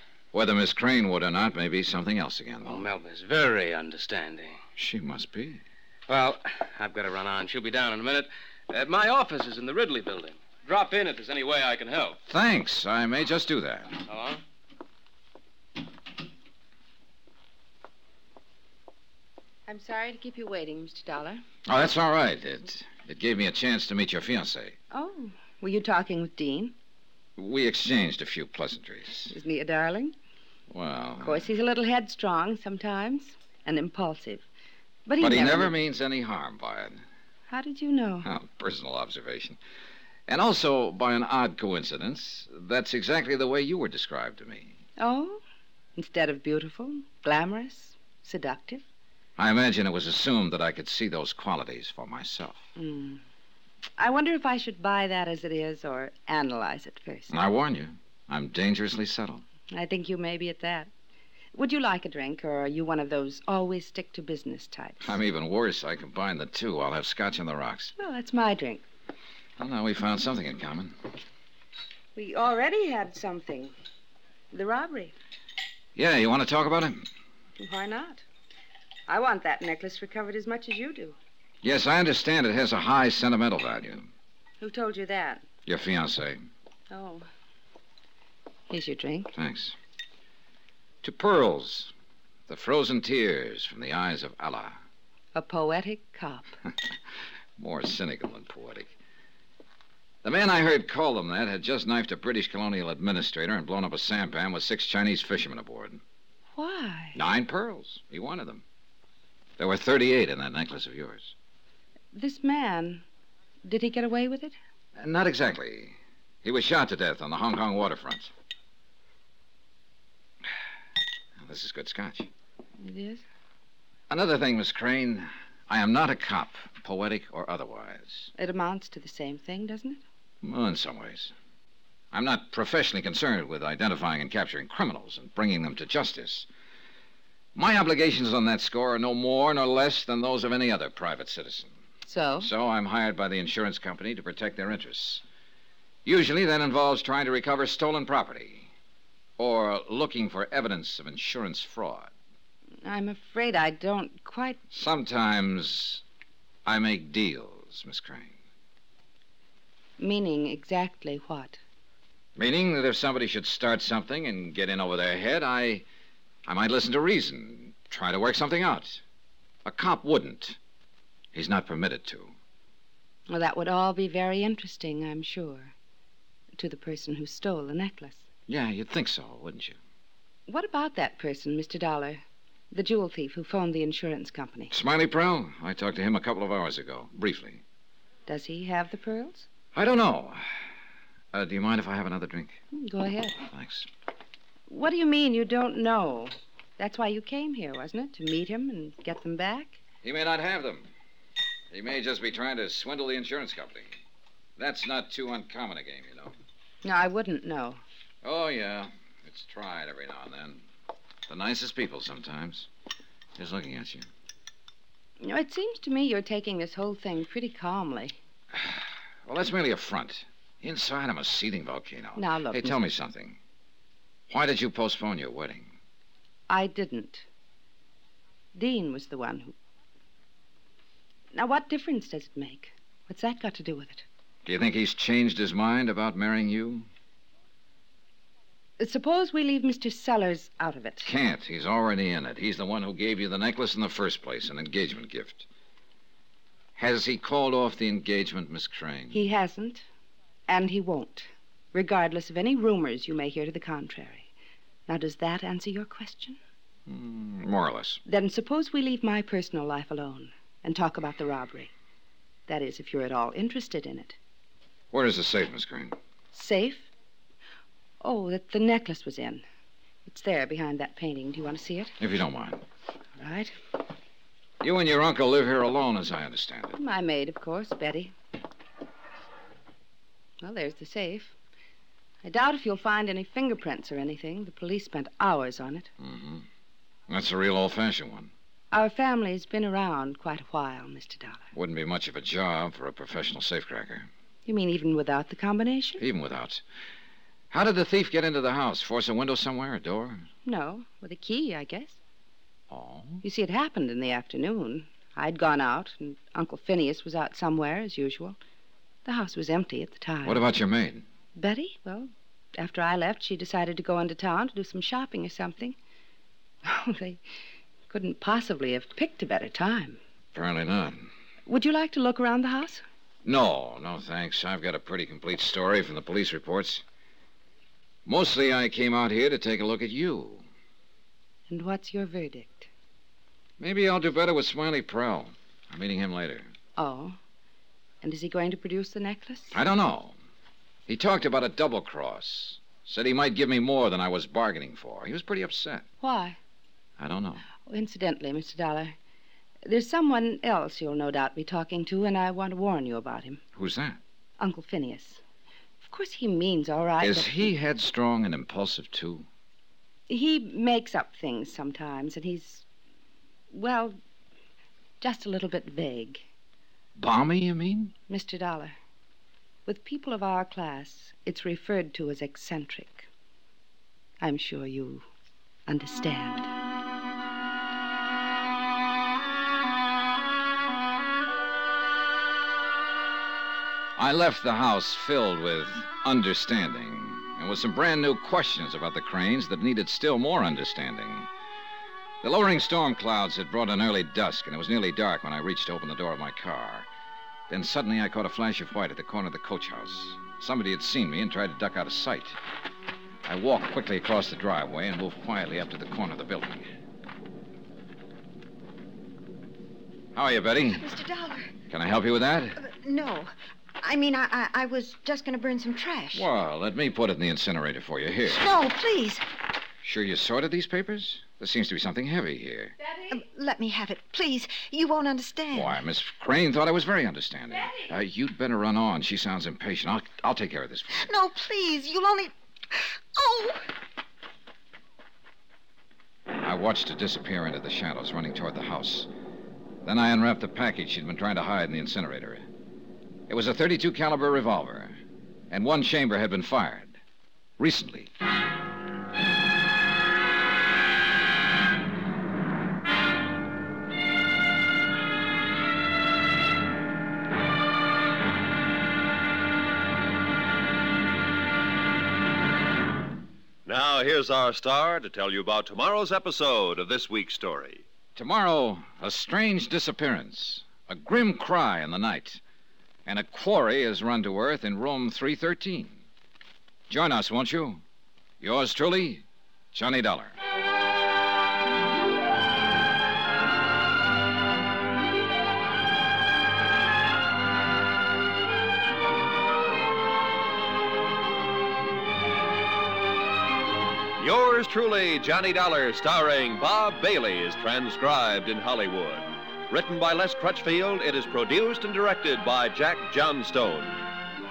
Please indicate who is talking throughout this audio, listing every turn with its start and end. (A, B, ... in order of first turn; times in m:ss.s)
0:00.3-0:02.8 A
0:02.6-0:04.6 B
0:04.8-0:05.6 A
0:06.1-0:12.2 B
0:12.3-0:14.0 A
0:14.1-0:14.4 B
0:19.7-0:21.4 C
0:21.7-0:24.8 A
0:24.9-0:26.7 C
0:27.4-0:29.3 A
0:29.3-0:30.2 C
0:30.7-0:31.5 A
0:31.2-0:34.5 C
0:35.1-0:35.8 C
0:35.2-0:37.0 A
0:37.5-0:38.3 C
0:38.2-0:39.6 A
0:40.3-0:44.8 A
0:45.0-0:45.4 C
0:46.0-0:48.8 C
0:49.4-0:52.6 A
0:52.8-0:53.2 C
0:54.0-0:57.4 C
0:57.3-0:59.4 A
0:59.7-1:00.9 C
1:01.5-1:05.2 C
1:05.0-1:07.9 A
1:08.0-1:08.9 C
1:09.6-1:11.0 A
1:12.2-1:13.7 C
1:14.5-1:15.2 C
1:16.0-1:17.1 A
1:17.6-1:18.2 C
1:19.1-1:21.2 C
1:21.6-1:24.1 A
1:24.6-1:25.4 C
1:25.7-1:26.4 A
1:26.9-1:27.3 C
1:28.7-1:29.4 C
1:29.4-1:29.8 A
1:31.0-1:31.9 A
1:32.5-1:34.8 A
1:35.3-1:36.5 C
1:37.6-1:38.9 A
1:40.2-1:46.0 A
1:46.6-1:47.2 C
1:47.2-1:48.6 A
1:49.6-1:51.3 A
1:52.1-1:53.0 C
1:53.6-1:54.6 C
1:55.0-1:58.3 A
2:01.4-2:02.3 A
2:02.8-2:03.2 C
2:04.1-2:08.3 A
2:08.4-2:10.0 C
2:10.4-2:11.3 A
2:12.1-2:16.5 A
2:17.6-2:21.8 A
2:22.1-2:22.5 C
2:22.4-2:25.2 A
2:26.0-2:28.7 A
2:29.4-2:32.1 A
2:32.8-2:34.6 C
2:34.7-2:36.0 A
2:36.7-2:38.3 A
2:40.0-2:41.6 C
2:42.4-2:45.8 A
2:46.5-2:49.0 A
2:49.6-2:50.6 A
2:51.3-2:52.4 A
2:53.3-2:55.7 C
2:56.6-2:58.2 C
2:58.5-2:59.8 A
3:00.5-3:04.7 C
3:04.7-3:07.6 A
3:08.3-3:09.5 C
3:09.7-3:10.5 A
3:11.3-3:12.6 A
3:12.7-3:13.4 C
3:13.5-3:13.9 A
3:14.7-3:19.8 C
3:20.0-3:20.9 A
3:21.7-3:23.9 A
3:24.6-3:26.4 A
3:26.8-3:27.8 C
3:28.2-3:30.6 A
3:31.3-3:32.7 A
3:33.4-3:34.1 A
3:35.2-3:38.2 C
3:38.5-3:43.4 A
3:42.2-3:42.8 C
3:44.3-3:45.7 A
3:46.5-3:47.3 C
3:48.5-3:49.6 C
3:51.3-3:54.0 C
3:54.4-3:56.9 A
3:58.8-4:01.1 C
4:01.0-4:05.5 A
4:06.8-4:09.2 A
4:09.1-4:09.9 C
4:10.5-4:14.3 C
4:14.9-4:16.4 C
4:16.9-4:18.0 A
4:18.0-4:21.7 C
4:22.5-4:24.2 C
4:24.9-4:26.0 A
4:26.3-4:26.9 C
4:28.0-4:29.4 C
4:30.1-4:32.0 C
4:32.0-4:32.6 A
4:33.2-4:33.5 C
4:34.6-4:36.8 A
4:36.8-4:38.1 C
4:40.4-4:41.3 C
4:42.2-4:45.9 C
4:46.0-4:46.5 A
4:47.1-4:48.3 A
4:48.7-4:51.5 C
4:51.5-4:54.1 A
4:54.4-4:56.0 C
4:56.0-4:56.6 A
4:57.5-5:00.3 A
5:00.4-5:02.0 C
5:02.7-5:03.2 A
5:03.2-5:08.4 C
5:09.0-5:10.4 C
5:10.2-5:11.1 A
5:11.4-5:15.8 C
5:16.6-5:17.2 C
5:17.9-5:20.0 C
5:20.3-5:21.1 A
5:21.5-5:22.8 C
5:23.2-5:26.8 A
5:28.1-5:30.4 A
5:31.5-5:32.7 C
5:33.6-5:36.5 A
5:36.8-5:37.2 C
5:38.0-5:39.6 C
5:39.5-5:40.2 A
5:40.9-5:45.8 A
5:46.0-5:46.4 C
5:47.0-5:47.4 A
5:47.6-5:49.0 C
5:49.6-5:53.4 C
5:53.6-5:54.0 A
5:54.4-5:55.2 C
5:55.8-5:57.5 C
5:57.0-5:59.3 A
6:00.1-6:02.6 C
6:03.5-6:04.0 C
6:05.0-6:06.2 C
6:07.0-6:07.9 A
6:08.1-6:08.8 C
6:09.7-6:13.1 C
6:14.2-6:15.0 C
6:15.7-6:16.5 C
6:24.0-6:31.3 A
6:32.2-6:36.9 A
6:37.5-6:42.4 A
6:43.3-6:46.7 A
6:50.2-6:50.9 A
6:50.7-6:51.5 D
6:51.7-6:52.6 A
6:52.6-6:56.3 D
6:56.1-6:58.5 A
6:58.3-6:59.2 D
6:59.8-7:02.8 A
7:03.1-7:05.8 D
7:05.5-7:11.1 A
7:11.0-7:13.7 D
7:16.4-7:19.1 A
7:19.8-7:22.5 A
7:23.3-7:25.0 A
7:25.5-7:27.0 A
7:27.6-7:28.1 A
7:43.7-7:47.8 E
7:48.2-7:52.4 A
7:53.1-7:56.0 A
7:56.9-7:57.8 A
7:58.4-8:00.4 A
8:14.2-8:24.1 E